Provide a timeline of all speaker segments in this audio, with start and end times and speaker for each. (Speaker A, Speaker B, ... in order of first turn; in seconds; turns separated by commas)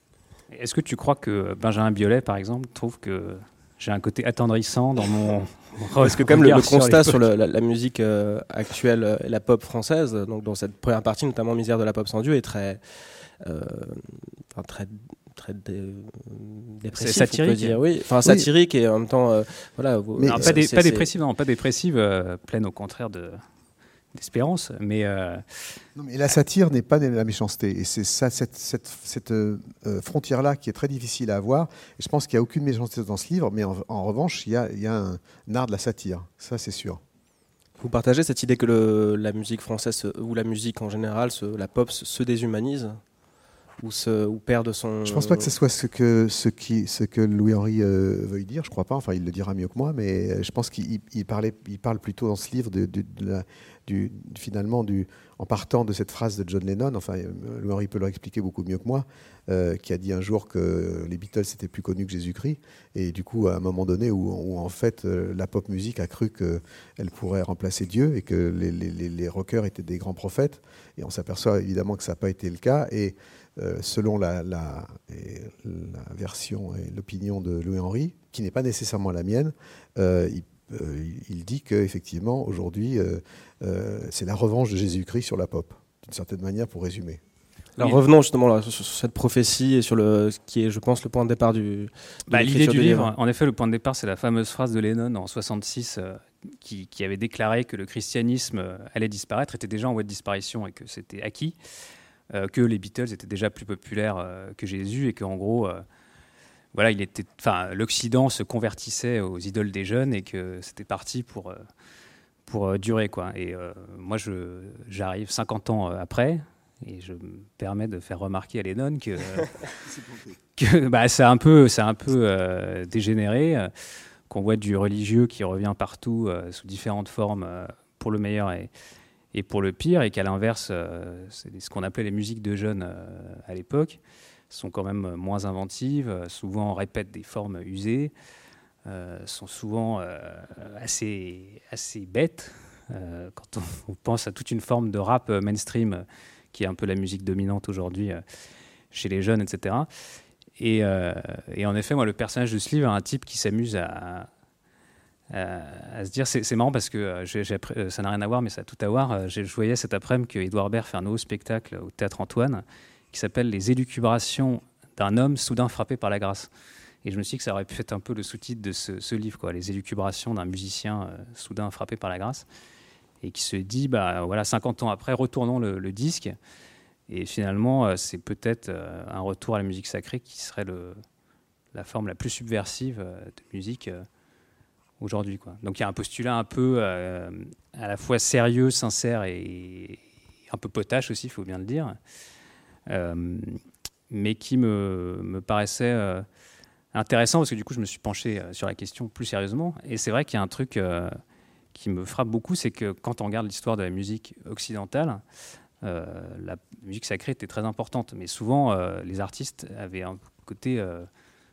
Speaker A: 0.5-7.2, Speaker B: 6.0-12.8, Speaker B: 13.4-21.0, Speaker A: 16.9-17.8, Speaker C: 20.2-20.5, Speaker A: 20.2-23.4, Speaker A: 24.1-25.8, Speaker C: 25.9-37.0, Speaker B: 37.8-43.0, Speaker B: 43.8-45.5, Speaker C: 45.0-87.2, Speaker B: 87.8-93.1, Speaker A: 92.3-101.6, Speaker A: 102.3-105.8, Speaker A: 106.7-111.7, Speaker A: 112.5-119.7, Speaker C: 119.8-120.3, Speaker A: 120.5-123.7, Speaker A: 124.3-128.7, Speaker A: 129.3-134.0, Speaker A: 134.5-138.1, Speaker A: 138.8-148.2, Speaker A: 148.9-149.9, Speaker A: 150.6-154.3, Speaker A: 155.3-166.5, Speaker A: 167.0-172.5, Speaker A: 173.2-176.3, Speaker A: 177.1-181.0, Speaker A: 181.7-184.1, Speaker A: 185.0-191.9, Speaker A: 192.9-196.2, Speaker A: 196.9-201.2, Speaker A: 201.7-205.2, Speaker A: 205.8-211.1